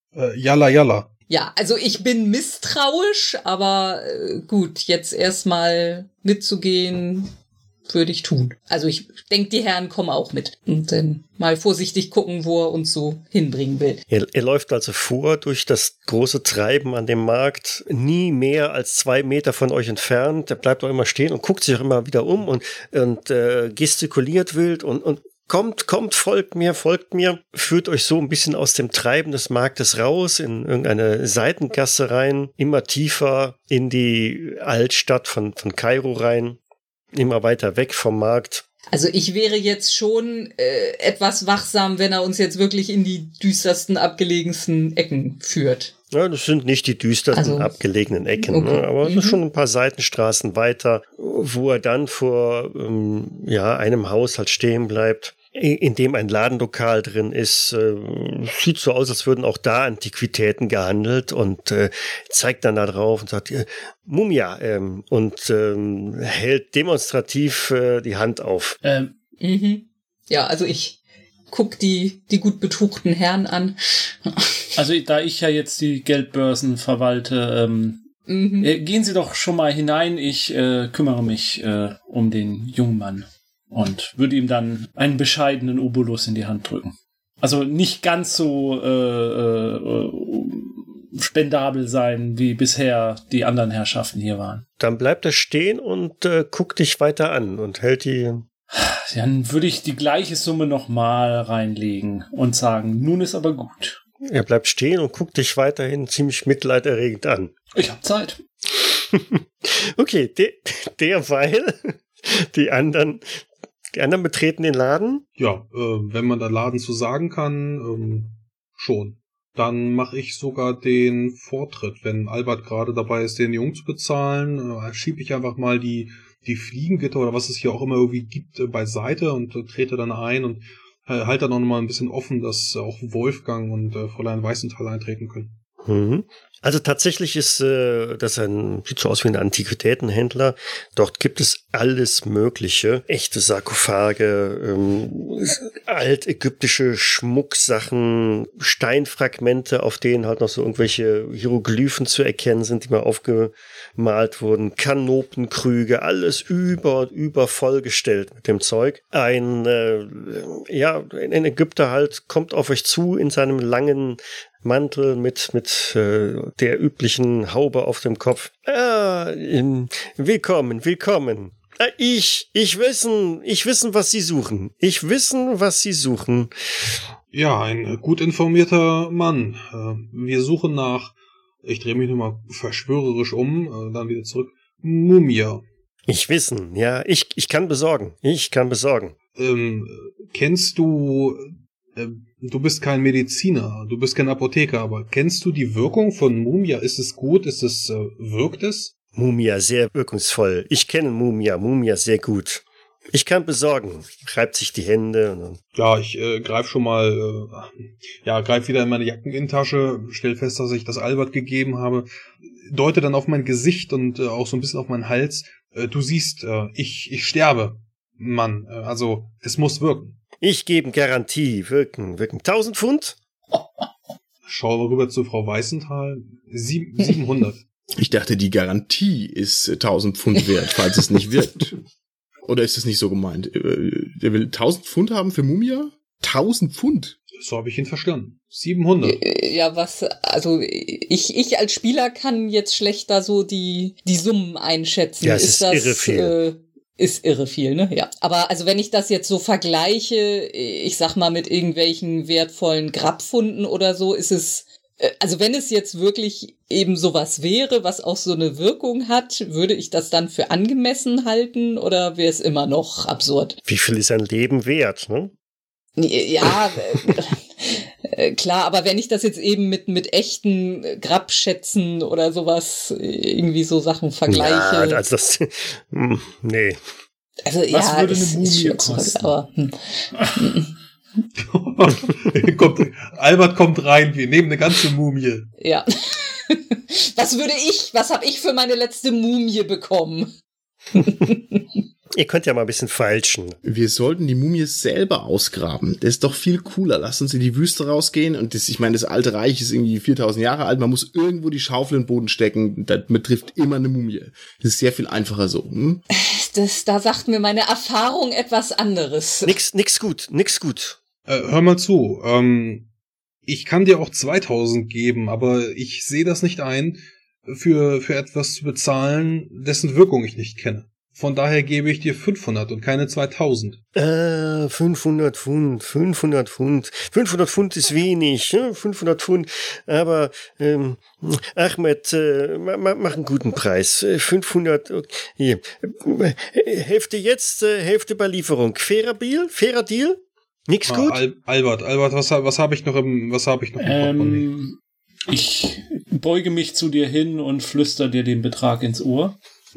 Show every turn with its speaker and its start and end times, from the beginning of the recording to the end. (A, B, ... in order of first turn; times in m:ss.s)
0:00.1-0:01.1 A
0:01.3-0:07.3 B
0:07.9-0:14.0 B
0:14.1-0:36.6 C
0:37.2-0:38.6 C
0:38.9-0:45.9 B
0:46.1-1:08.8 C
0:47.3-0:47.7 B
0:48.4-0:49.4 B
1:08.8-1:09.1 D
1:09.4-1:11.0 B
1:11.5-1:14.6 B
1:14.8-1:18.1 D
1:18.3-1:18.7 B
1:18.6-1:34.6 D
1:34.8-1:38.4 C
1:38.7-1:44.0 D
1:44.3-1:47.5 C
1:47.8-1:48.4 D
1:49.0-1:53.4 C
1:53.9-1:55.2 C
1:55.4-2:15.6 A
2:15.9-2:57.0 C
2:57.3-3:05.6 A
3:06.1-3:09.2 C
3:09.4-3:18.9 A
3:19.2-3:25.6 C
3:25.8-3:40.2 A
3:40.4-3:43.2 C
3:44.4-3:47.6 A
3:48.0-3:51.8 E
3:52.5-3:57.2 E
3:57.3-3:59.2 A
3:59.0-4:23.6 B
4:05.2-4:06.3 C
4:23.7-4:25.3 C
4:26.0-4:35.0 B
4:34.3-4:36.8 C
4:37.5-4:40.7 B
4:37.7-4:39.4 D
4:41.4-4:45.5 A
4:45.6-4:50.3 B
4:51.0-4:51.6 B
4:52.2-4:53.6 C
4:53.6-5:06.0 E
5:06.2-5:09.6 B
5:09.4-5:11.0 C
5:11.3-5:12.9 A
5:13.5-5:23.8 A
5:24.0-5:41.2 C
5:40.9-5:44.5 A
5:43.8-5:49.4 D